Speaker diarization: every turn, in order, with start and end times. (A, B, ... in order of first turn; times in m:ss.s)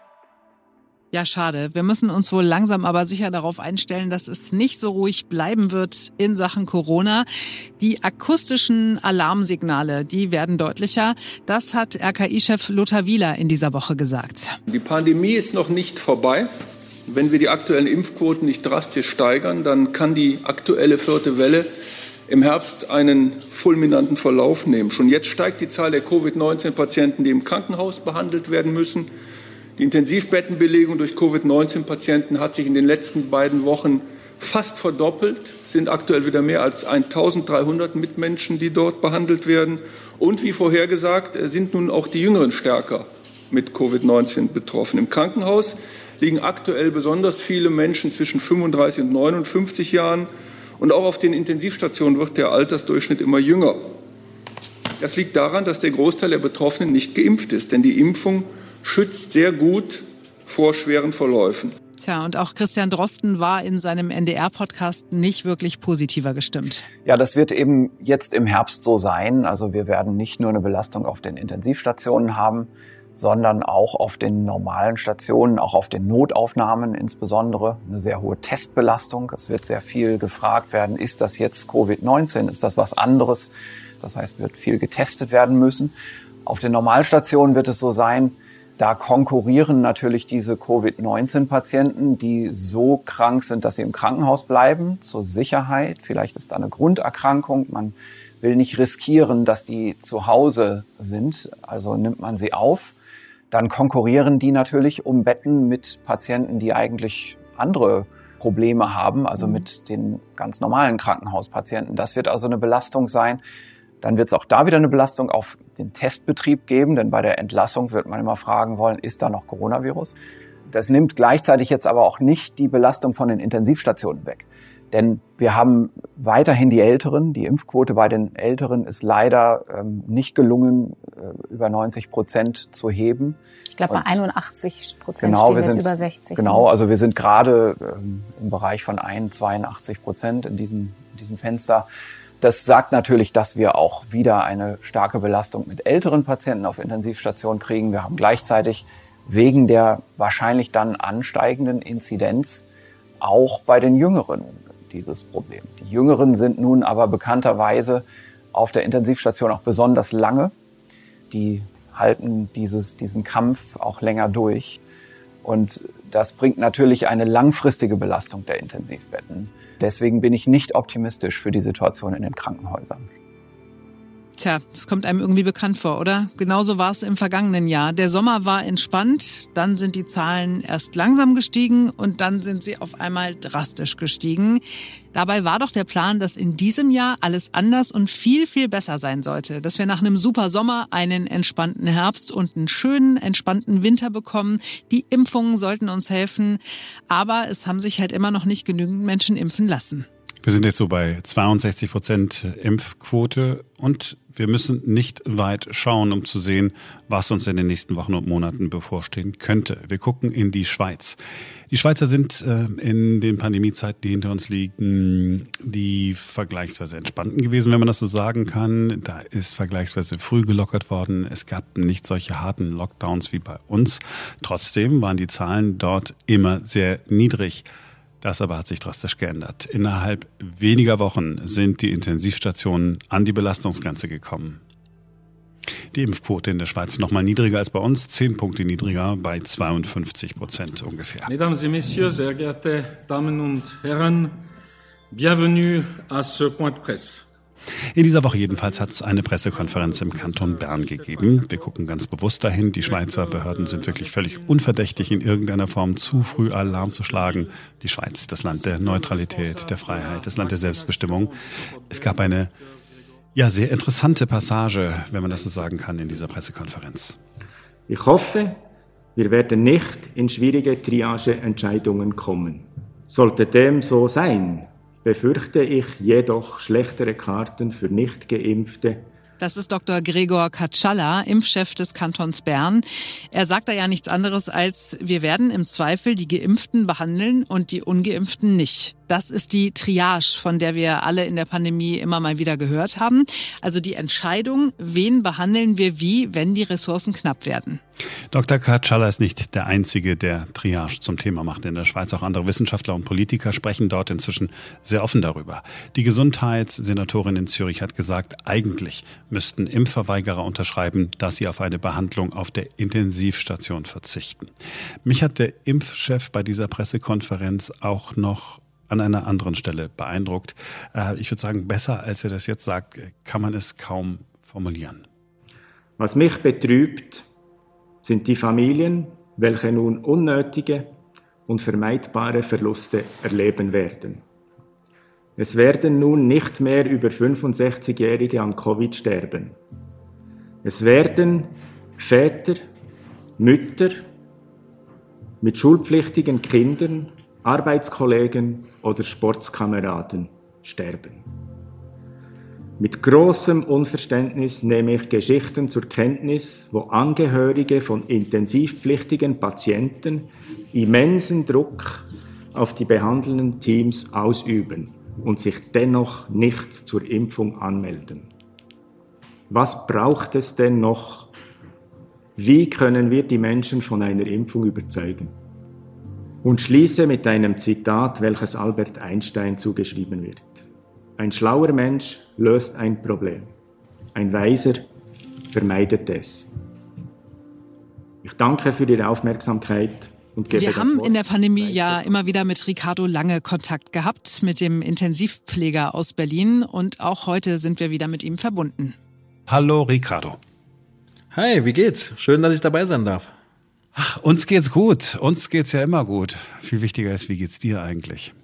0:01.1-0:07.3 A
0:07.8-0:14.6 A
0:14.7-0:16.5 B
0:17.1-0:21.7 B
0:22.3-0:29.1 B
0:29.8-0:54.0 B
0:55.0-1:01.7 B
1:02.0-1:06.9 A
1:07.0-1:25.9 C
1:26.5-1:43.0 C
1:43.5-1:53.4 C
1:54.0-2:00.2 C
2:00.7-2:14.2 C
2:13.8-2:16.7 D
2:15.2-2:21.9 C
2:22.4-2:32.7 C
2:33.2-2:40.5 C
2:41.3-2:44.8 C
2:45.4-2:53.1 C
2:54.4-3:20.1 A
3:20.4-3:31.2 E
3:31.7-3:47.7 E
3:48.2-3:54.6 E
3:55.9-4:01.3 E
4:01.2-4:04.4 F
4:05.1-4:07.3 F
4:07.9-4:22.5 E
4:08.3-4:11.8 F
4:12.8-4:15.4 F
4:16.0-4:17.6 F
4:18.5-4:22.7 F
4:23.4-4:27.2 E
4:27.9-4:28.6 G
4:29.2-4:39.1 G
4:39.4-4:57.8 A
4:58.3-5:14.5 E
5:15.0-5:25.0 E
5:26.0-5:27.2 G
5:28.0-5:31.0 G
5:31.5-5:34.2 G
5:35.4-5:39.6 G
5:40.6-5:42.7 G
5:43.4-5:44.1 G
5:45.4-5:51.3 G
5:52.8-6:08.3 G
6:09.5-6:11.3 G
6:12.4-6:15.4 G
6:16.4-6:20.6 G
6:21.2-6:23.5 G
6:24.2-6:24.9 G
6:25.5-6:26.5 G
6:28.2-6:32.3 G
6:30.5-6:39.0 A
6:39.5-6:40.4 E
6:41.3-6:43.3 H
6:44.0-6:48.3 E